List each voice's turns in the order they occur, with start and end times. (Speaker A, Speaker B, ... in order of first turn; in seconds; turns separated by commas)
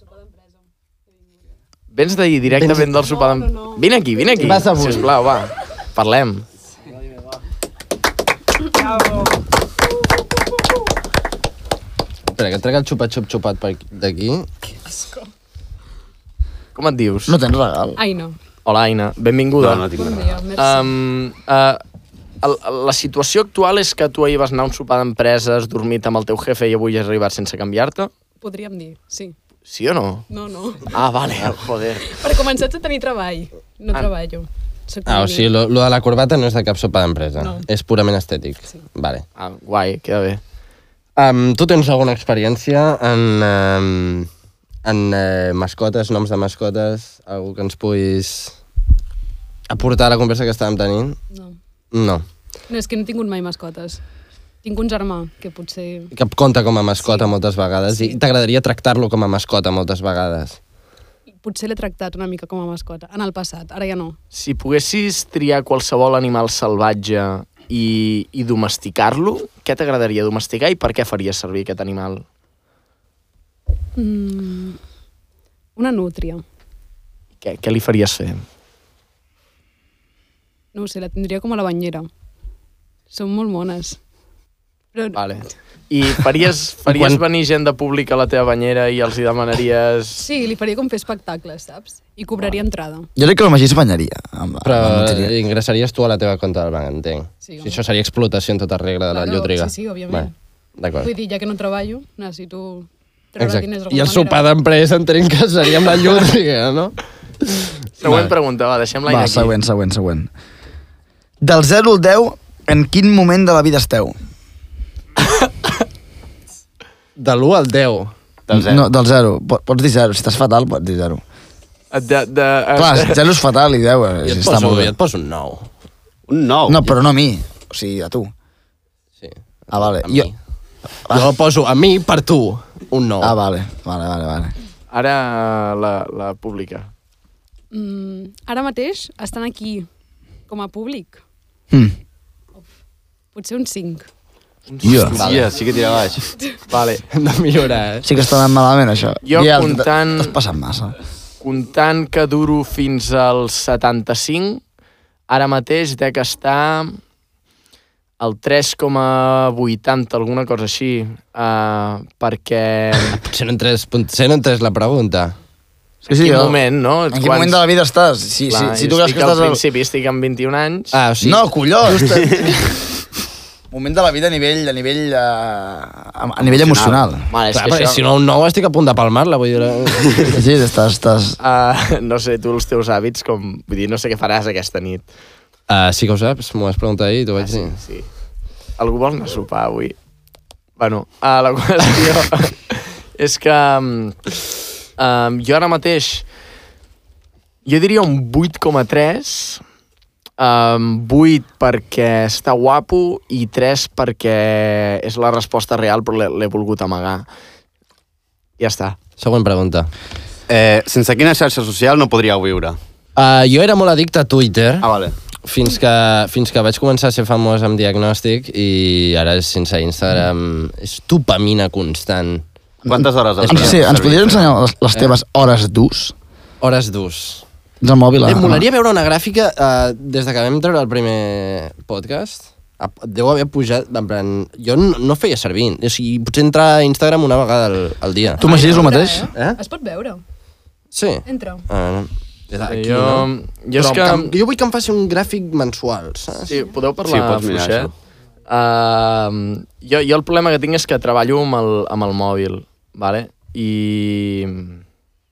Speaker A: 1.9-6.4, Speaker B: 2.5-2.9, Speaker B: 4.4-5.1, Speaker B: 12.3-14.5, Speaker C: 14.9-15.2, Speaker A: 16.8-17.4, Speaker D: 17.3-18.0, Speaker C: 18.0-18.4, Speaker A: 18.6-19.9, Speaker E: 19.6-20.4, Speaker C: 19.9-20.9, Speaker A: 20.6-21.8, Speaker A: 22.4-28.1, Speaker C: 28.4-29.3, Speaker A: 29.7-30.2, Speaker C: 30.3-30.9, Speaker A: 30.9-32.1, Speaker C: 32.0-35.5, Speaker B: 35.0-39.2, Speaker C: 37.4-37.6, Speaker A: 39.4-40.4, Speaker B: 41.2-44.3, Speaker B: 44.8-48.5, Speaker B: 49.7-51.2, Speaker B: 51.9-52.2, Speaker C: 52.7-54.0, Speaker C: 54.6-56.1, Speaker B: 56.1-60.6, Speaker C: 57.0-57.3, Speaker C: 57.9-58.2, Speaker C: 61.4-64.2, Speaker A: 64.3-72.2, Speaker C: 74.0-74.8, Speaker C: 75.8-76.4, Speaker A: 77.4-78.4, Speaker C: 80.7-82.1, Speaker C: 83.1-84.0, Speaker C: 84.9-85.2, Speaker A: 85.1-90.3, Speaker B: 86.9-87.2, Speaker C: 90.2-93.1, Speaker D: 93.2-95.3, Speaker B: 94.6-101.1, Speaker C: 97.4-97.8, Speaker C: 99.1-100.3, Speaker C: 101.0-104.5, Speaker B: 103.4-107.0, Speaker A: 108.0-109.5, Speaker D: 109.1-110.3, Speaker D: 111.4-114.2, Speaker B: 117.2-118.1, Speaker E: 118.5-118.8, Speaker D: 118.5-121.2, Speaker A: 121.9-123.2, Speaker D: 122.8-124.9, Speaker B: 124.2-125.7, Speaker E: 126.3-126.9, Speaker D: 126.7-128.3, Speaker B: 129.2-130.3, Speaker D: 129.7-130.3, Speaker B: 131.1-133.3, Speaker D: 133.2-134.5, Speaker A: 134.9-136.9, Speaker C: 137.7-139.9, Speaker C: 140.5-141.2, Speaker C: 143.3-144.1, Speaker A: 144.7-145.4, Speaker D: 144.8-145.2, Speaker E: 145.1-146.3, Speaker B: 145.1-145.5, Speaker A: 146.7-147.0, Speaker B: 147.1-148.1, Speaker D: 148.0-150.9, Speaker A: 149.2-150.4, Speaker A: 151.4-154.6, Speaker A: 155.3-157.0, Speaker A: 158.2-163.2, Speaker B: 163.1-165.3, Speaker D: 166.1-166.6, Speaker A: 166.1-167.6, Speaker D: 167.1-169.6, Speaker A: 168.5-170.9, Speaker B: 170.9-171.4, Speaker D: 171.2-172.8, Speaker D: 173.7-177.3, Speaker E: 176.4-177.0, Speaker A: 177.3-178.0, Speaker B: 177.5-180.4, Speaker D: 180.3-181.4, Speaker A: 181.4-185.1, Speaker B: 185.7-187.8, Speaker A: 187.4-188.1, Speaker A: 188.8-189.9, Speaker A: 190.8-194.3, Speaker A: 195.0-196.2, Speaker A: 197.7-199.6, Speaker A: 200.4-207.3, Speaker A: 208.6-209.0, Speaker B: 209.2-209.9, Speaker E: 210.5-212.8, Speaker B: 213.2-214.9, Speaker E: 214.8-215.1, Speaker B: 215.4-222.4, Speaker D: 222.8-226.1, Speaker E: 222.9-224.5, Speaker B: 223.4-223.9, Speaker B: 226.6-227.4, Speaker D: 227.8-228.6, Speaker B: 228.2-238.8, Speaker C: 238.4-240.2, Speaker D: 238.4-239.3, Speaker B: 239.3-239.6, Speaker B: 240.9-246.5, Speaker C: 241.2-241.7, Speaker A: 242.7-244.3, Speaker A: 246.5-247.9, Speaker E: 247.0-247.9, Speaker A: 248.5-254.8